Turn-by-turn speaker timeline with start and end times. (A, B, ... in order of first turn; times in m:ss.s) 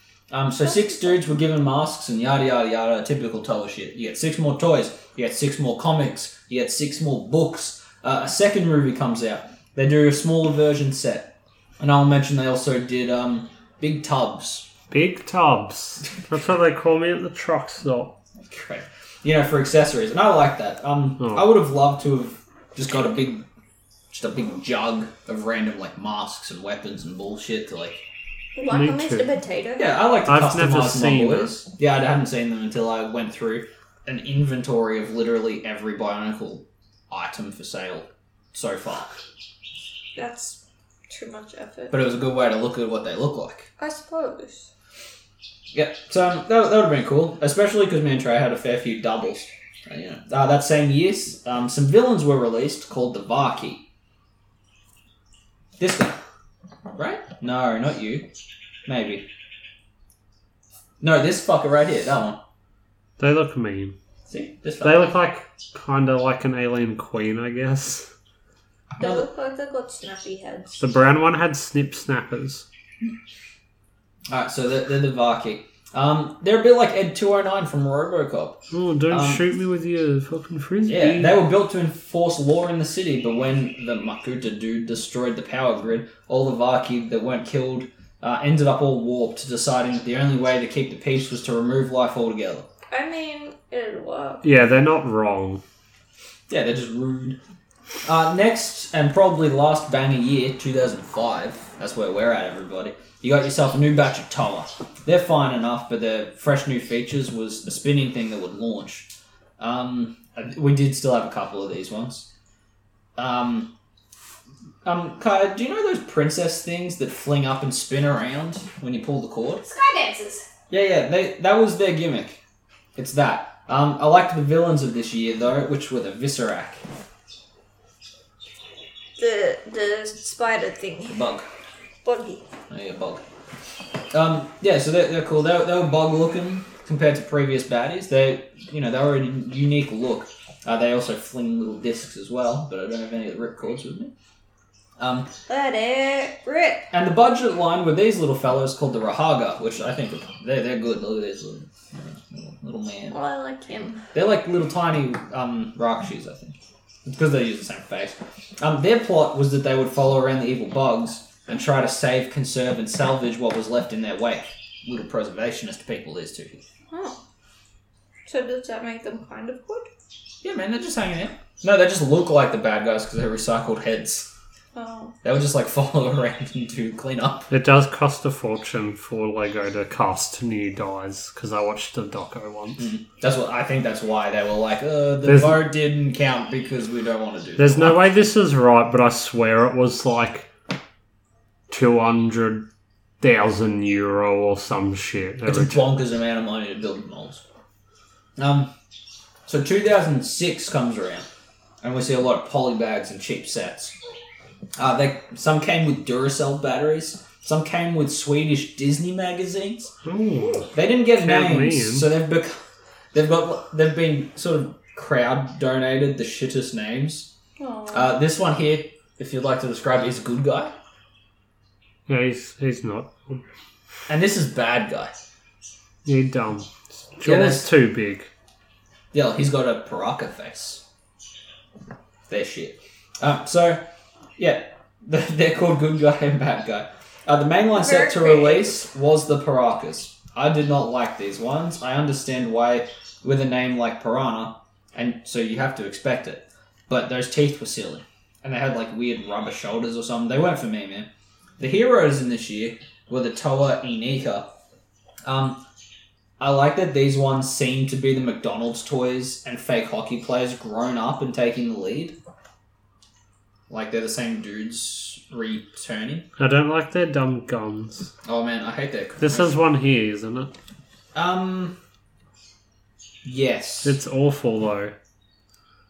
0:00.3-0:14.7 A
0:00.7-0:01.3 B
0:14.9-0:18.2 C
0:18.5-0:23.4 A
0:21.2-0:21.5 C
0:24.1-0:28.0 A
0:28.6-0:30.0 B
0:28.7-0:29.3 C
0:29.8-0:39.1 A
0:30.3-0:31.5 C
0:40.2-0:42.0 B
0:41.9-0:43.7 A
0:43.8-0:44.7 B
0:45.7-0:53.8 A
0:55.8-0:56.2 A
0:56.9-0:58.3 A
0:58.9-0:59.2 A
1:01.0-1:02.4 A
1:03.2-1:04.0 C
1:04.3-1:05.2 A
1:04.8-1:08.1 C
1:09.0-1:10.8 B
1:09.0-1:09.2 A
1:10.8-1:12.7 C
1:14.3-1:18.6 A
1:18.7-1:21.4 C
1:19.1-1:19.4 A
1:20.9-1:32.7 A
1:32.9-1:34.4 B
1:34.4-1:35.6 C
1:36.5-1:37.4 A
1:38.0-1:52.3 A
1:53.2-1:53.7 A
1:54.8-1:59.6 A
1:59.6-2:00.4 B
2:00.7-2:02.4 A
2:03.0-2:06.8 A
2:09.2-2:11.2 B
2:11.1-2:11.5 A
2:12.0-2:12.4 B
2:12.7-2:13.2 A
2:14.1-2:24.1 A
2:25.0-2:25.3 A
2:25.5-2:26.9 B
2:26.9-2:33.2 A
2:33.1-2:34.1 B
2:34.1-2:46.6 A
2:46.9-2:47.2 B
2:48.3-2:49.9 B
2:50.4-2:54.3 A
2:54.7-2:55.2 B
2:55.2-2:57.5 A
2:57.5-3:02.9 C
3:02.8-3:08.1 A
3:05.2-3:05.6 C
3:07.6-3:10.5 C
3:11.7-3:12.7 C
3:13.2-3:15.8 C
3:15.5-3:17.4 A
3:18.4-3:18.7 A
3:19.5-3:21.3 A
3:21.8-3:24.0 A
3:24.8-3:29.9 A
3:30.0-3:32.1 C
3:30.7-3:32.6 A
3:33.1-3:37.3 A
3:37.6-3:38.1 B
3:37.9-3:40.8 A
3:42.1-3:43.4 C
3:44.1-3:45.1 A
3:46.0-3:48.3 C
3:47.2-3:47.7 A
3:49.1-3:50.8 A
3:52.3-3:53.8 A
3:54.4-4:14.5 A
3:57.7-3:58.8 B
4:15.3-4:15.6 A
4:16.4-4:22.2 A
4:23.7-4:26.3 A
4:26.4-4:28.1 C
4:28.2-4:29.5 A
4:29.2-4:30.5 C
4:31.2-4:31.8 A
4:33.2-4:34.0 A
4:33.8-4:34.9 C